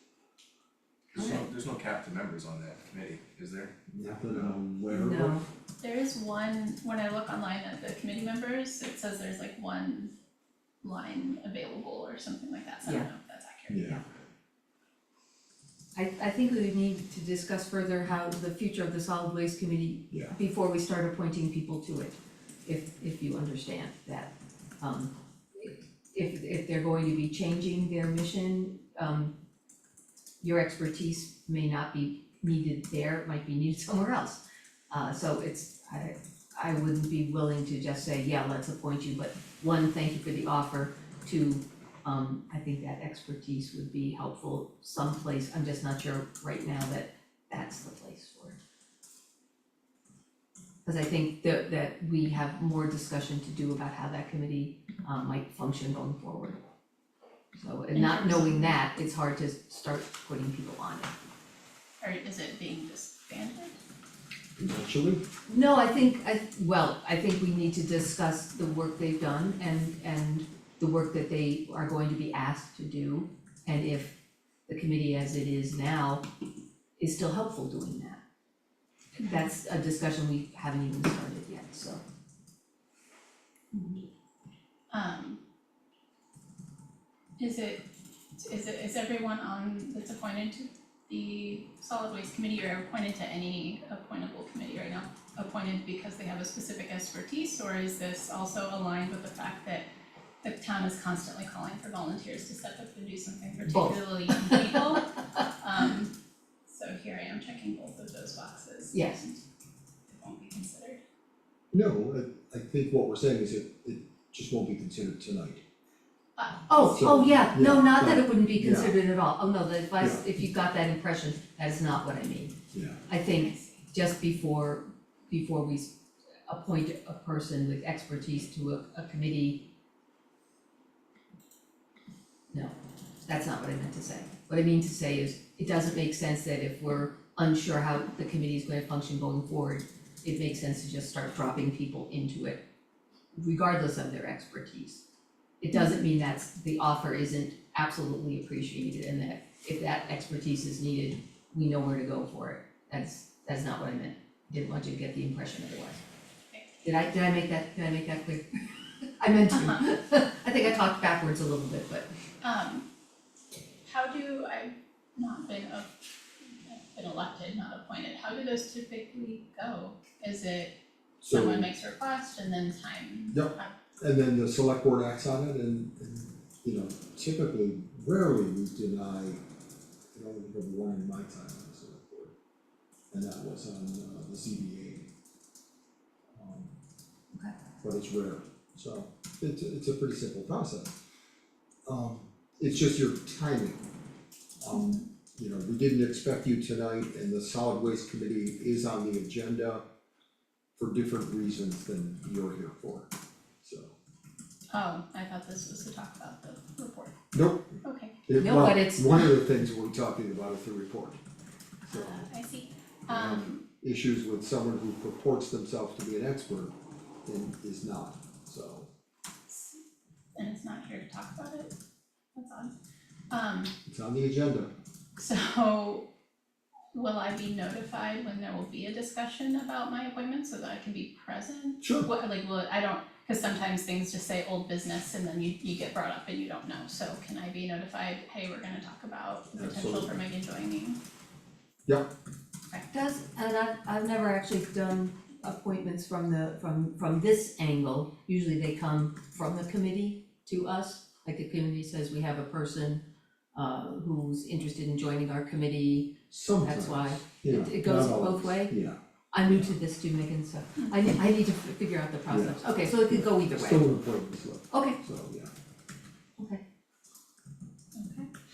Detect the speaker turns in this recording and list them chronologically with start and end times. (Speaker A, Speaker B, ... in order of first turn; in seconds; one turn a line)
Speaker A: 1.1-3.7
Speaker B: 1.1-1.4
Speaker C: 3.9-5.4
Speaker B: 4.9-5.5
Speaker D: 5.8-10.1
Speaker D: 10.8-14.0
Speaker C: 13.7-14.0
Speaker B: 15.9-29.4
Speaker B: 30.4-48.6
Speaker B: 50.8-56.6
Speaker B: 57.5-61.1
Speaker D: 57.9-58.7
Speaker D: 62.0-63.8
Speaker C: 64.6-65.2
Speaker B: 65.5-74.2
Speaker B: 74.7-76.2
Speaker B: 77.0-78.2
Speaker D: 79.2-79.5
Speaker B: 79.2-82.0
Speaker D: 83.7-84.0
Speaker D: 84.9-85.4
Speaker D: 87.4-87.8
Speaker D: 88.3-99.9
Speaker D: 100.4-106.1
Speaker B: 103.7-105.0
Speaker D: 106.7-109.4
Speaker B: 108.9-109.2
Speaker D: 110.1-111.0
Speaker C: 111.7-115.6
Speaker D: 116.4-117.4
Speaker B: 116.7-122.6
Speaker C: 116.9-119.0
Speaker C: 120.0-120.2
Speaker C: 122.7-123.0
Speaker B: 123.1-126.0
Speaker D: 123.2-123.8
Speaker B: 126.5-129.7
Speaker B: 132.5-142.6
Speaker B: 143.3-145.0
Speaker B: 145.6-156.0
Speaker B: 156.8-162.1
Speaker D: 159.5-159.8
Speaker D: 162.4-162.9
Speaker D: 163.8-170.8
Speaker C: 171.2-171.7
Speaker D: 171.3-173.7
Speaker C: 173.3-179.4
Speaker C: 180.1-182.3
Speaker C: 183.1-185.1
Speaker C: 186.3-186.8
Speaker C: 187.8-190.9
Speaker C: 191.9-193.8
Speaker C: 194.6-199.8
Speaker C: 200.8-203.1
Speaker C: 203.6-203.9
Speaker D: 204.7-207.1
Speaker C: 207.3-211.2
Speaker D: 207.8-208.2
Speaker B: 208.4-209.2
Speaker C: 211.8-212.3
Speaker D: 211.9-213.6
Speaker C: 213.1-216.7
Speaker C: 217.2-218.9
Speaker D: 219.5-219.8
Speaker D: 220.3-221.8
Speaker D: 222.3-222.8
Speaker D: 223.3-223.7
Speaker C: 223.9-224.7
Speaker D: 225.2-226.1
Speaker D: 226.9-241.0
Speaker C: 231.8-232.1
Speaker C: 239.6-240.1
Speaker B: 242.8-258.8
Speaker C: 256.3-259.7
Speaker B: 259.3-263.9
Speaker C: 262.3-265.5
Speaker B: 264.7-265.0
Speaker D: 267.9-268.3